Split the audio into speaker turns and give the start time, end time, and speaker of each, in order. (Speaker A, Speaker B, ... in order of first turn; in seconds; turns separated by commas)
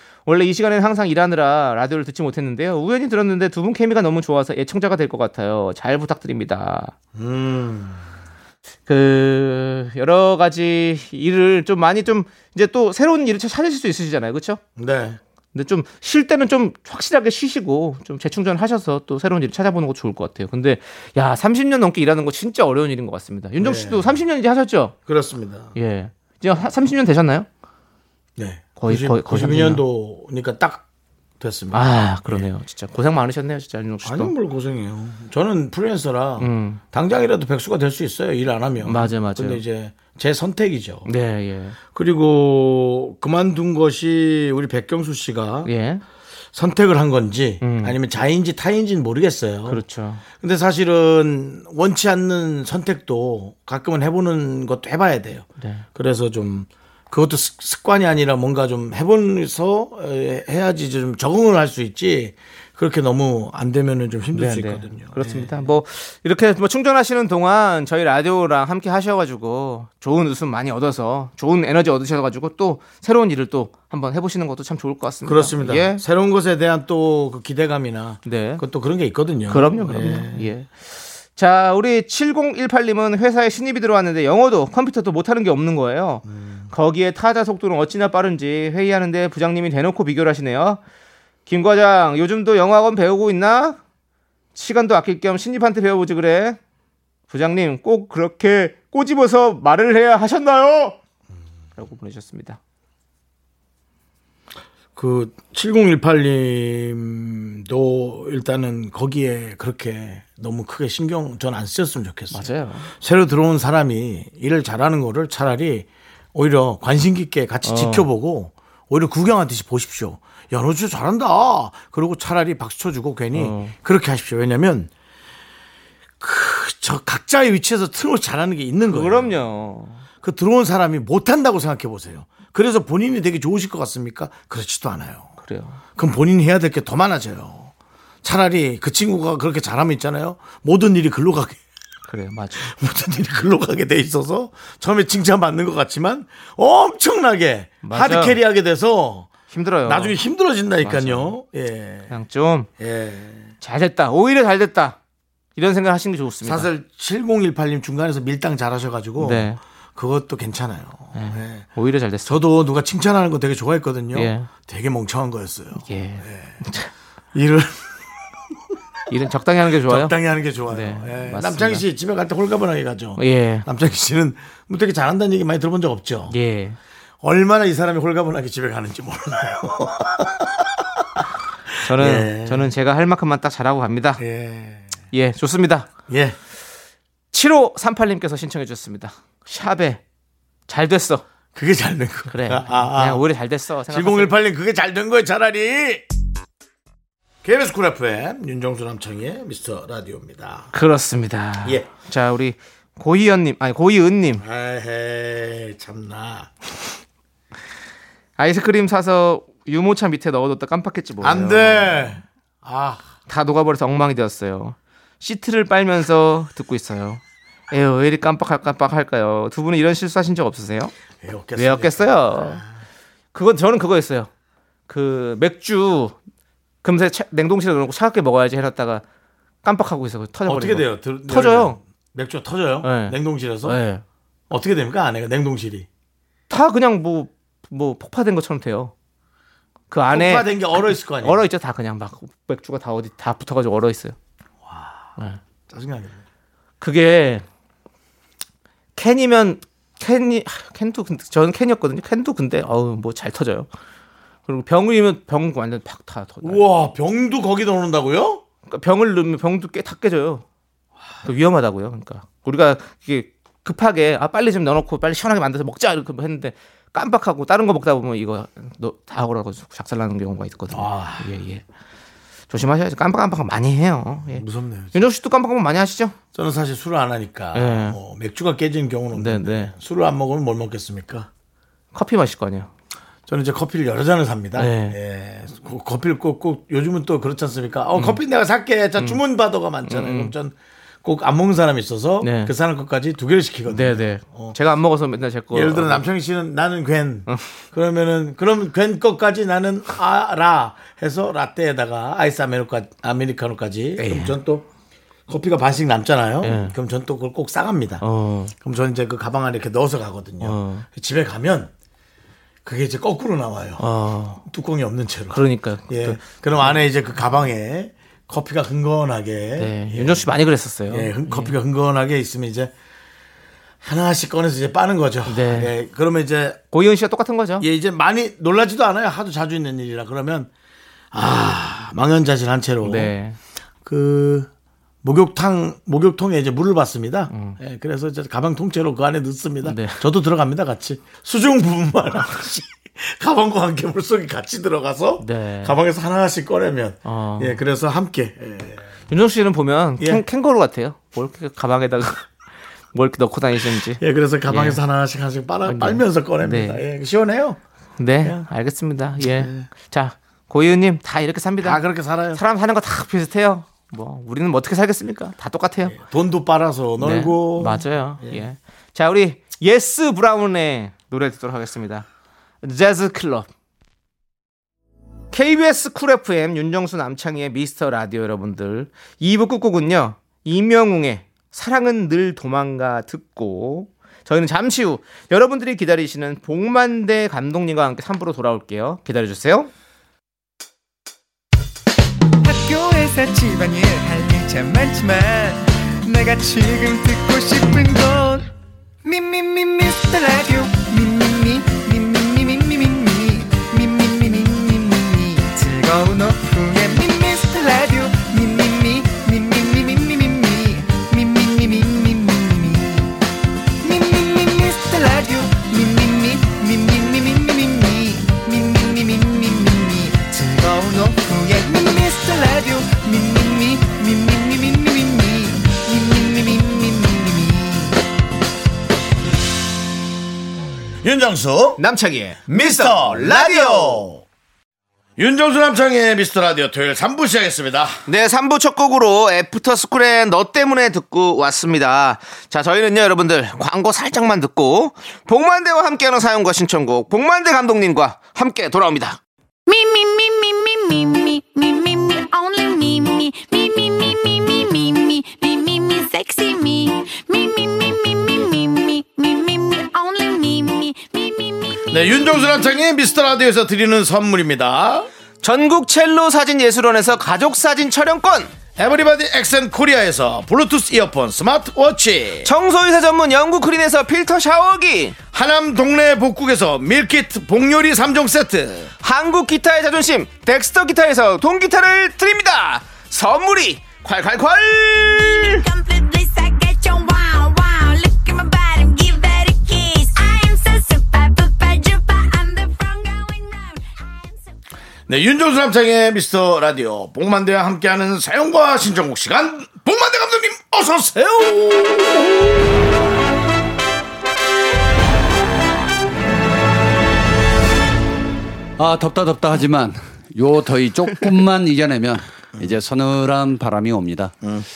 Speaker A: 0.3-6.9, Speaker B: 7.1-8.0, Speaker A: 8.9-14.6, Speaker B: 14.8-15.2, Speaker A: 15.5-24.9, Speaker B: 23.6-24.2, Speaker B: 25.1-25.7, Speaker A: 25.7-27.5, Speaker B: 28.4-30.8, Speaker A: 28.8-29.8, Speaker B: 31.4-32.5, Speaker A: 31.7-34.3, Speaker B: 34.0-41.1, Speaker A: 36.4-36.8, Speaker A: 38.8-39.6, Speaker A: 41.0-41.8, Speaker B: 41.9-45.7, Speaker A: 45.6-46.0, Speaker B: 46.5-65.7, Speaker A: 47.6-48.0, Speaker A: 49.7-50.2, Speaker A: 64.3-76.0, Speaker B: 75.2-80.5, Speaker A: 78.2-78.6, Speaker A: 79.5-80.8, Speaker A: 81.3-90.8, Speaker B: 86.2-86.7, Speaker A: 91.5-93.8, Speaker A: 94.5-96.6, Speaker A: 97.3-101.0, Speaker A: 101.8-102.6, Speaker B: 105.0-124.9, Speaker A: 112.3-112.9, Speaker A: 117.6-118.1, Speaker A: 123.3-123.7, Speaker B: 126.2-129.4, Speaker A: 128.9-130.0, Speaker B: 130.2-135.3, Speaker A: 135.4-135.8, Speaker B: 135.9-137.7, Speaker B: 138.2-141.6, Speaker A: 142.1-142.7, Speaker B: 142.5-149.3, Speaker A: 147.8-148.4, Speaker A: 149.5-150.2, Speaker B: 149.8-152.2, Speaker A: 150.8-151.3, Speaker A: 152.1-152.7, Speaker B: 152.8-153.5, Speaker A: 153.6-154.9, Speaker A: 155.6-156.7, Speaker B: 156.4-166.6, Speaker A: 159.2-159.6, Speaker A: 161.1-162.4, Speaker A: 164.1-164.5, Speaker A: 165.8-166.9, Speaker B: 167.3-167.9, Speaker A: 169.1-170.1, Speaker B: 169.7-176.4, Speaker A: 170.7-171.8, Speaker A: 173.2-173.7, Speaker A: 176.3-176.8, Speaker B: 177.2-181.0, Speaker B: 181.8-182.7, Speaker A: 181.8-184.2, Speaker B: 184.2-185.0, Speaker A: 185.1-185.9, Speaker B: 186.1-186.4, Speaker A: 187.3-190.0, Speaker A: 190.7-191.2, Speaker B: 191.5-193.3, Speaker A: 192.3-194.3, Speaker B: 193.9-196.0, Speaker B: 197.4-200.7, Speaker A: 200.7-204.4, Speaker B: 201.6-201.9, Speaker B: 204.4-206.5, Speaker A: 208.4-211.9, Speaker B: 211.2-213.0, Speaker A: 213.3-220.9, Speaker B: 221.2-222.7, Speaker A: 221.6-222.6, Speaker A: 223.3-224.3, Speaker A: 224.9-226.1, Speaker A: 226.8-229.0, Speaker A: 229.6-231.8, Speaker B: 230.4-233.8, Speaker A: 232.8-234.0, Speaker B: 234.5-235.9, Speaker A: 236.5-238.9, Speaker A: 239.9-244.1, Speaker B: 240.1-241.5, Speaker B: 244.6-245.1, Speaker B: 245.7-246.2, Speaker A: 246.8-247.4, Speaker A: 249.0-253.7, Speaker A: 254.5-256.6, Speaker B: 256.4-258.4, Speaker A: 258.7-260.4, Speaker A: 261.2-271.6, Speaker B: 270.7-271.4, Speaker A: 272.5-276.1, Speaker B: 274.3-275.1, Speaker B: 276.3-281.3, Speaker A: 277.5-278.0, Speaker A: 279.1-279.7, Speaker A: 281.9-282.7, Speaker B: 283.3-294.6, Speaker A: 284.6-285.0, Speaker A: 289.8-290.3, Speaker A: 292.2-292.5, Speaker A: 293.7-296.0, Speaker B: 295.5-304.7, Speaker A: 304.0-304.3, Speaker B: 305.3-311.7, Speaker A: 306.4-306.8, Speaker A: 308.0-308.5, Speaker A: 310.4-310.8, Speaker B: 312.6-322.7, Speaker A: 313.8-314.4, Speaker A: 315.3-316.8, Speaker A: 319.6-321.6, Speaker B: 323.8-326.6, Speaker A: 325.2-325.7, Speaker A: 326.7-327.6, Speaker B: 327.6-330.5, Speaker B: 331.1-333.1, Speaker A: 332.8-333.4, Speaker B: 333.8-334.5, Speaker B: 335.0-348.9, Speaker A: 337.3-337.6, Speaker A: 339.6-340.0, Speaker A: 345.2-345.8, Speaker A: 347.1-347.6, Speaker A: 349.1-352.2, Speaker B: 350.0-350.2, Speaker A: 352.9-354.8, Speaker B: 353.8-357.6, Speaker A: 355.6-356.8, Speaker A: 358.0-361.8, Speaker B: 358.2-358.5, Speaker B: 359.1-359.7, Speaker B: 361.6-362.4, Speaker A: 362.3-365.9, Speaker B: 365.8-368.4, Speaker A: 367.0-372.0, Speaker A: 372.6-373.5, Speaker A: 375.3-389.7, Speaker C: 392.4-398.5, Speaker C: 399.0-413.2, Speaker C: 413.8-428.0, Speaker B: 431.0-431.8, Speaker A: 431.8-434.1, Speaker B: 432.5-434.2, Speaker B: 435.2-438.0, Speaker A: 438.1-449.2, Speaker D: 449.7-461.8, Speaker B: 461.9-465.1, Speaker A: 465.4-468.5, Speaker B: 468.8-472.5, Speaker A: 472.4-475.2, Speaker B: 475.3-478.9, Speaker A: 479.0-485.6, Speaker D: 485.0-494.4, Speaker B: 495.1-502.4, Speaker E: 508.8-514.4